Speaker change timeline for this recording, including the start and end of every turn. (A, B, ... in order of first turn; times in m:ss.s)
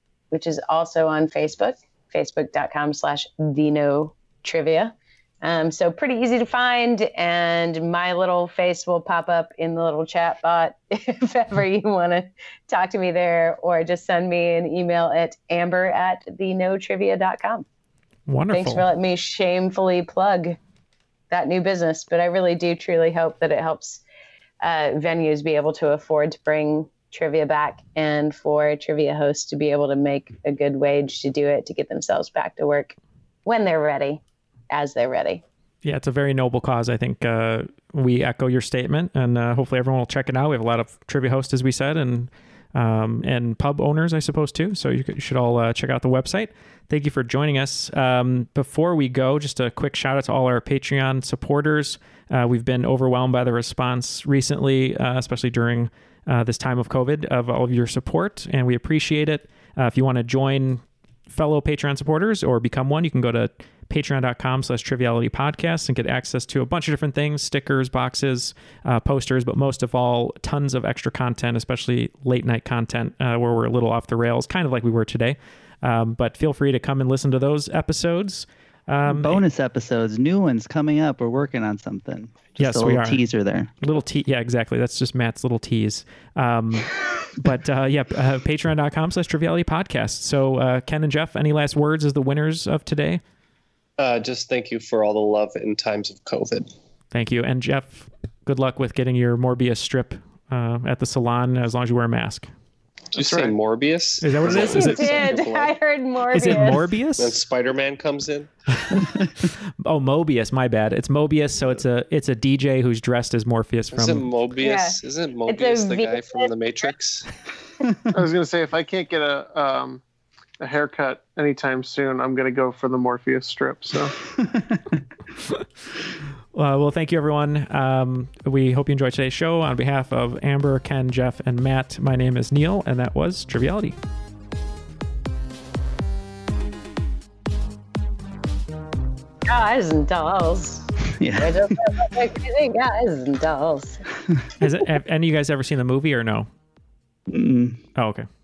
0:00.3-0:17.6 A
0:18.3-0:18.8 B
0:18.5-0:20.6 A
0:21.3-0:24.0 A
0:24.6-0:35.4 A
0:35.8-1:19.4 B
1:19.0-1:23.7 C
1:22.6-1:23.2 B
1:23.8-1:33.2 B
1:34.0-1:36.7 D
1:37.1-1:42.5 B
1:43.1-1:45.7 D
1:43.2-1:43.5 E
1:44.2-1:45.2 B
1:44.5-1:46.8 A
1:46.3-1:47.4 B
1:47.2-1:48.5 D
1:49.8-1:54.3 B
1:53.9-1:57.3 D
1:54.6-1:55.0 A
1:55.5-1:56.5 A
1:57.8-1:58.1 C
1:58.1-2:00.0 E
2:00.6-2:04.1 E
2:04.4-2:05.0 C
2:06.5-2:14.0 B
2:19.5-2:24.0 A
2:21.2-2:21.8 C
2:24.6-2:26.5 B
2:27.3-2:27.8 C
2:28.0-2:28.2 B